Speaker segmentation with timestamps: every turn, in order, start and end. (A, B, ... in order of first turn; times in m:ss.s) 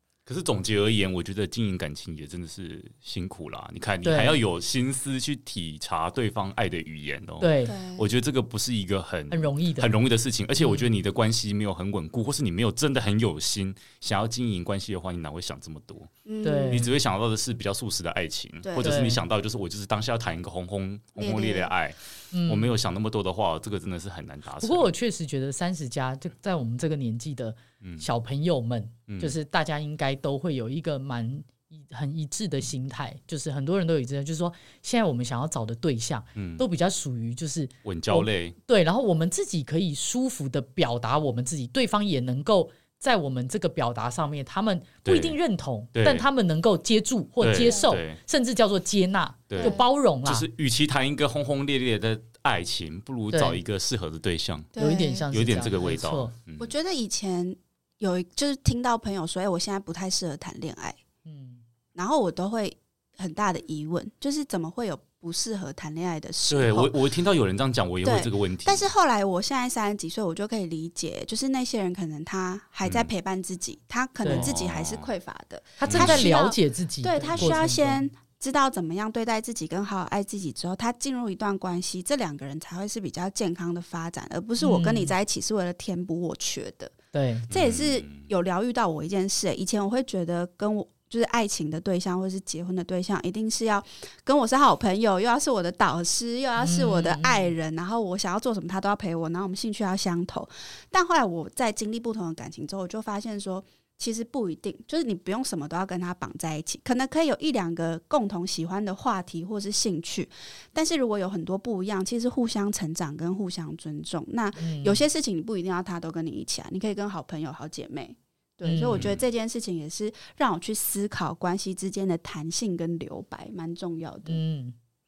0:00.2-0:16.1 A
0:04.0-0:04.4 B
0:07.4-0:07.8 B
0:07.6-0:08.1 C
0:09.3-0:09.9 B
0:16.2-0:16.9 C
0:16.4-0:16.9 B
0:16.7-0:24.9 A
0:18.6-0:19.0 C
0:18.8-0:19.2 B
0:21.2-0:21.7 C
0:22.3-0:22.7 B
0:24.6-0:50.4 B
0:27.8-0:28.0 A
0:29.1-0:29.3 A
0:36.4-0:36.6 A
0:37.8-0:38.5 A
0:45.0-0:45.4 A
0:46.0-0:46.2 A
0:47.4-0:48.2 A
0:49.5-0:54.8 A
0:49.6-0:49.8 C
0:53.3-0:53.6 B
0:54.7-0:55.3 C
0:54.8-0:56.3 B
0:55.3-0:56.7 A
0:56.6-1:01.0 C
1:01.2-1:01.6 B
1:01.9-1:06.9 C
1:06.5-1:08.8 A
1:08.0-1:26.9 C
1:12.8-1:13.1 A
1:14.2-1:14.5 B
1:14.3-1:15.1 A
1:15.8-1:18.1 B
1:15.9-1:16.3 A
1:17.3-1:17.6 A
1:24.6-1:25.1 B
1:27.1-1:27.5 B
1:27.5-2:04.4 C
1:27.5-1:28.2 A
1:36.6-1:37.5 B
1:54.6-1:55.0 B
1:58.6-1:59.0 B
1:58.9-1:59.2 A
2:04.3-2:04.8 B